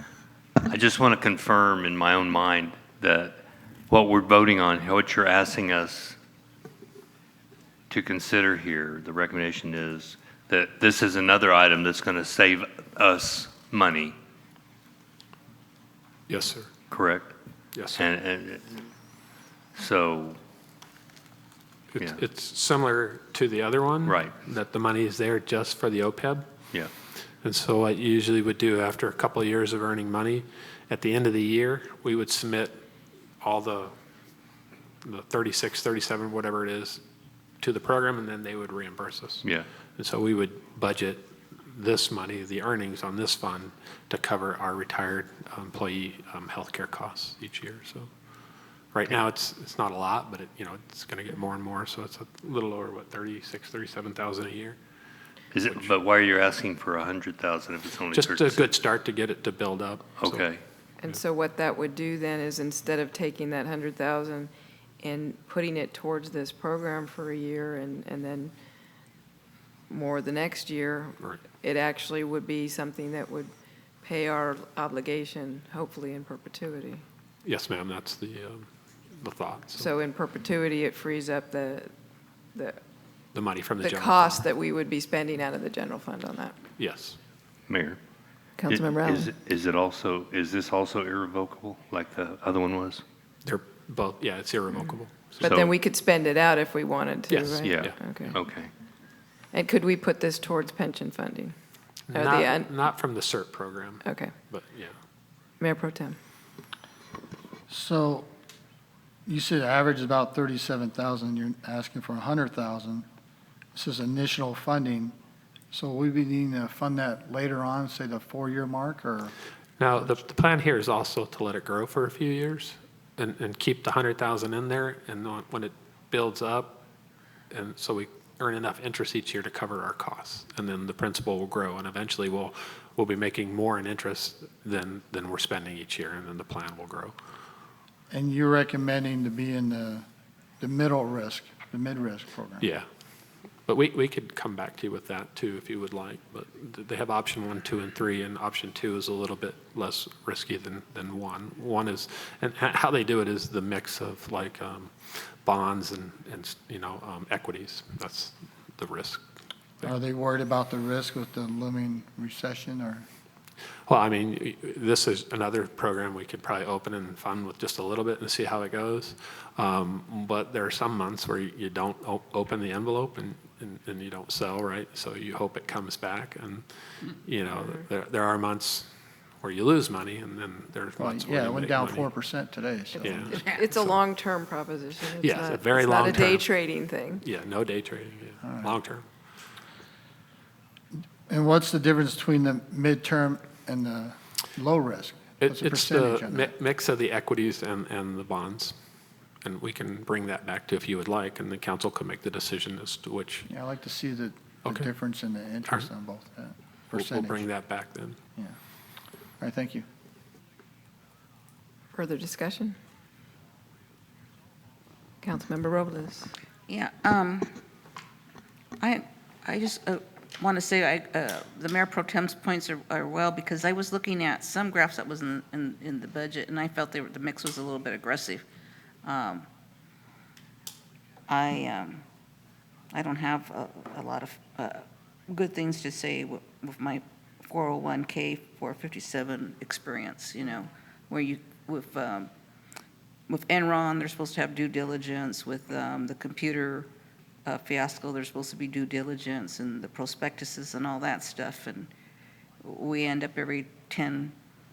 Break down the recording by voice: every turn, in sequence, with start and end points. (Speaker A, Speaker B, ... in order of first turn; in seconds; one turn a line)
Speaker A: 0.6-6.2
Speaker A: 7.9-14.2
Speaker B: 16.3-16.7
Speaker A: 16.9-17.3
Speaker B: 17.7-18.1
Speaker A: 17.9-18.9
Speaker A: 19.8-20.4
Speaker B: 22.0-26.5
Speaker A: 24.1-24.4
Speaker B: 27.4-32.8
Speaker B: 33.4-33.9
Speaker B: 35.0-37.0
Speaker B: 37.6-48.1
Speaker B: 48.9-54.8
Speaker A: 55.5-58.7
Speaker B: 58.1-60.5
Speaker A: 60.2-60.6
Speaker C: 61.0-68.5
Speaker C: 69.9-77.0
Speaker B: 77.4-79.9
Speaker C: 79.8-81.9
Speaker C: 82.5-82.8
Speaker B: 83.3-84.5
Speaker C: 83.8-86.6
Speaker B: 86.8-87.2
Speaker A: 87.7-88.0
Speaker C: 88.6-89.3
Speaker A: 88.7-93.0
Speaker B: 93.4-95.6
Speaker A: 95.4-95.7
Speaker C: 95.4-98.4
Speaker B: 97.3-97.9
Speaker A: 97.6-98.7
Speaker C: 99.5-101.5
Speaker B: 102.1-104.9
Speaker C: 102.1-102.7
Speaker C: 104.0-104.3
Speaker C: 105.6-106.2
Speaker D: 107.7-108.3
Speaker D: 109.2-113.0
Speaker D: 113.7-115.1
Speaker D: 115.7-119.3
Speaker B: 119.8-126.8
Speaker B: 127.5-137.1
Speaker D: 138.1-140.1
Speaker D: 140.6-142.7
Speaker B: 142.6-142.9
Speaker B: 143.7-159.2
Speaker D: 159.8-163.1
Speaker B: 163.9-178.9
Speaker B: 179.4-182.1
Speaker D: 181.0-183.4
Speaker B: 183.0-183.9
Speaker C: 183.3-187.2
Speaker B: 185.2-186.5
Speaker B: 187.2-189.1
Speaker D: 188.4-188.7
Speaker D: 191.0-196.5
Speaker B: 195.4-198.8
Speaker B: 199.4-203.5
Speaker D: 203.5-207.4
Speaker B: 206.9-208.2
Speaker D: 209.4-209.8
Speaker C: 211.9-212.8
Speaker C: 215.2-216.3
Speaker E: 216.7-217.5
Speaker E: 218.8-228.4
Speaker E: 229.0-229.5
Speaker E: 231.3-232.0
Speaker E: 232.9-242.3
Speaker E: 243.3-246.9
Speaker E: 247.4-251.9
Speaker E: 252.6-254.3